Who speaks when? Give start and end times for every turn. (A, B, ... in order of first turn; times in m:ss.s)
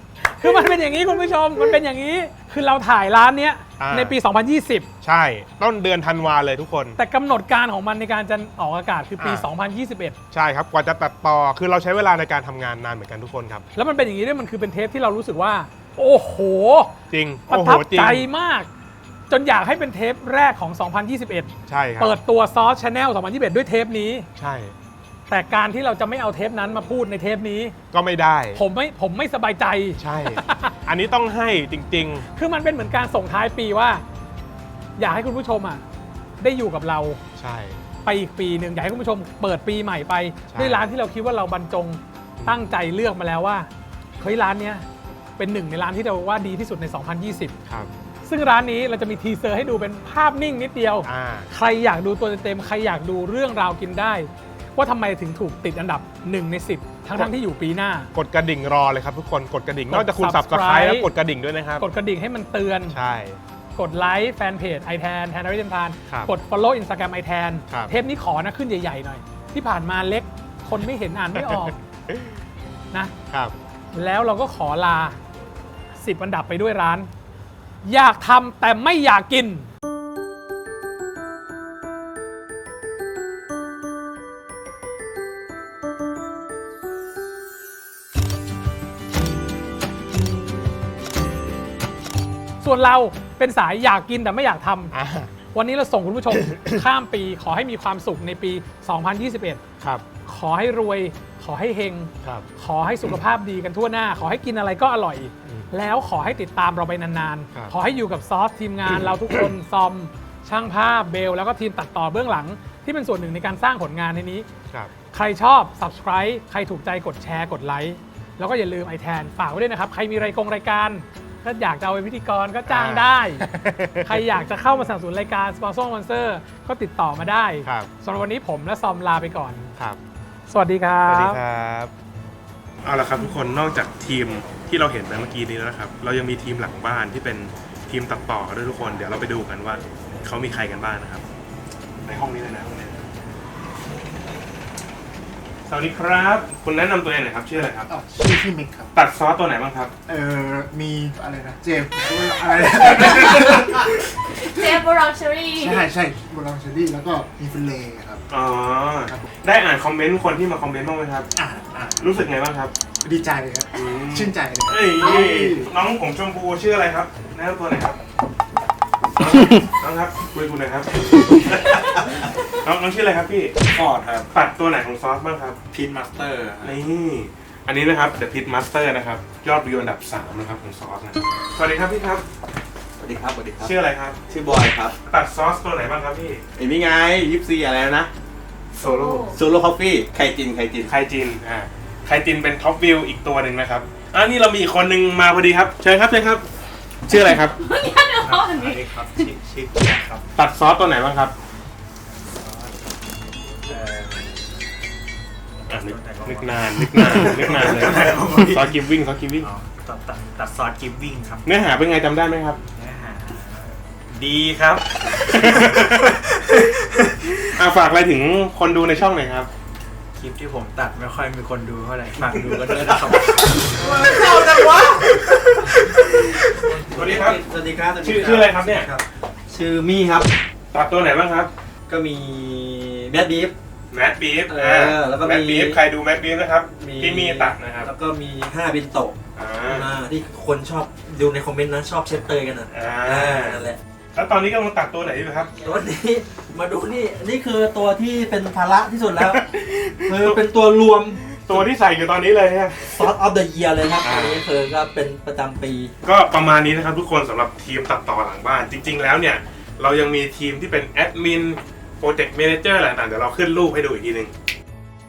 0:00.2-0:04.9 A
0:00.4-0:01.0 B
0:03.8-0:04.2 B
0:05.0-0:07.0 B
0:07.0-0:10.2 A
0:09.2-0:09.5 B
0:10.3-0:13.6 B
0:13.8-0:16.9 A
0:17.1-0:18.3 B
0:17.5-0:18.7 A
0:19.3-0:24.3 A
0:21.7-0:22.2 B
0:24.4-0:24.7 B
0:25.3-0:27.8 A
0:27.9-0:28.6 B
0:28.6-0:30.7 A
0:30.0-0:32.2 B
0:32.3-0:34.0 A
0:35.0-0:35.8 A
0:36.4-0:37.2 A
0:37.4-0:37.8 B
0:38.0-0:43.7 A
0:40.5-0:40.9 B
0:44.2-0:44.8 A
0:45.4-0:47.5 A
0:48.2-0:58.1 A
0:51.0-0:51.5 B
0:58.1-1:01.8 B
0:59.9-1:01.1 A
1:01.8-1:03.0 A
1:02.9-1:03.4 B
1:03.8-1:11.8 A
1:11.3-1:12.4 B
1:13.3-1:13.5 B
1:13.9-1:15.2 A
1:16.0-1:17.1 A
1:17.8-1:19.7 A
1:32.6-1:34.9 A
1:34.9-1:35.3 B
1:35.5-1:39.6 A
1:36.3-1:36.7 B
1:39.8-1:40.0 B
1:40.2-1:54.5 A
1:45.4-1:45.7 B
1:48.8-1:49.5 B
1:55.1-2:03.4 A
2:02.6-2:04.4 B
2:04.0-2:09.7 A
2:07.6-2:07.9 B
2:10.5-2:11.4 A
2:11.1-2:11.9 B
2:12.8-2:21.2 B
2:22.0-2:23.0 B
2:25.7-2:27.9 B
2:27.9-2:28.9 C
2:28.9-2:29.9 B
2:30.1-2:34.8 C
2:32.7-2:33.9 B
2:34.4-2:35.9 D
2:35.6-2:38.2 C
2:38.3-2:41.3 B
2:39.1-2:39.3 C
2:41.4-2:42.0 C
2:42.0-2:42.7 B
2:43.0-2:45.7 C
2:43.7-2:48.0 B
2:45.0-2:45.2 D
2:49.2-2:55.6 B
2:51.5-2:52.3 E
2:53.7-2:54.3 E
2:55.7-2:56.8 E
2:56.6-3:02.2 B
3:03.0-3:04.9 E
3:03.6-3:04.2 B
3:05.0-3:06.4 B
3:06.6-3:08.1 E
3:08.8-3:09.3 B
3:08.8-3:09.4 D
3:09.3-3:10.9 E
3:10.8-3:16.0 B
3:15.8-3:16.4 E
3:17.0-3:17.6 B
3:17.1-3:18.8 D
3:18.2-3:20.2 E
3:20.3-3:21.3 B
3:22.4-3:22.7 E
3:23.7-3:24.3 E
3:25.7-3:29.5 B
3:25.7-3:28.8 E
3:29.4-3:31.4 E
3:29.8-3:30.5 F
3:31.4-3:32.6 B
3:32.8-3:37.4 E
3:35.1-3:36.2 B
3:37.4-3:39.5 B
3:40.2-3:43.2 F
3:42.0-3:50.3 E
3:46.0-3:47.4 B
3:48.0-3:48.9 B
3:50.7-3:51.5 B
3:51.9-3:53.5 E
3:53.9-3:57.9 B
3:54.5-3:55.8 E
3:56.8-4:03.8 E
3:59.4-3:59.9 B
4:02.7-4:05.5 B
4:05.6-4:09.5 E
4:09.2-4:10.4 B
4:10.0-4:11.7 E
4:11.4-4:13.1 B
4:12.9-4:15.9 E
4:14.0-4:14.4 B
4:16.0-4:24.3 B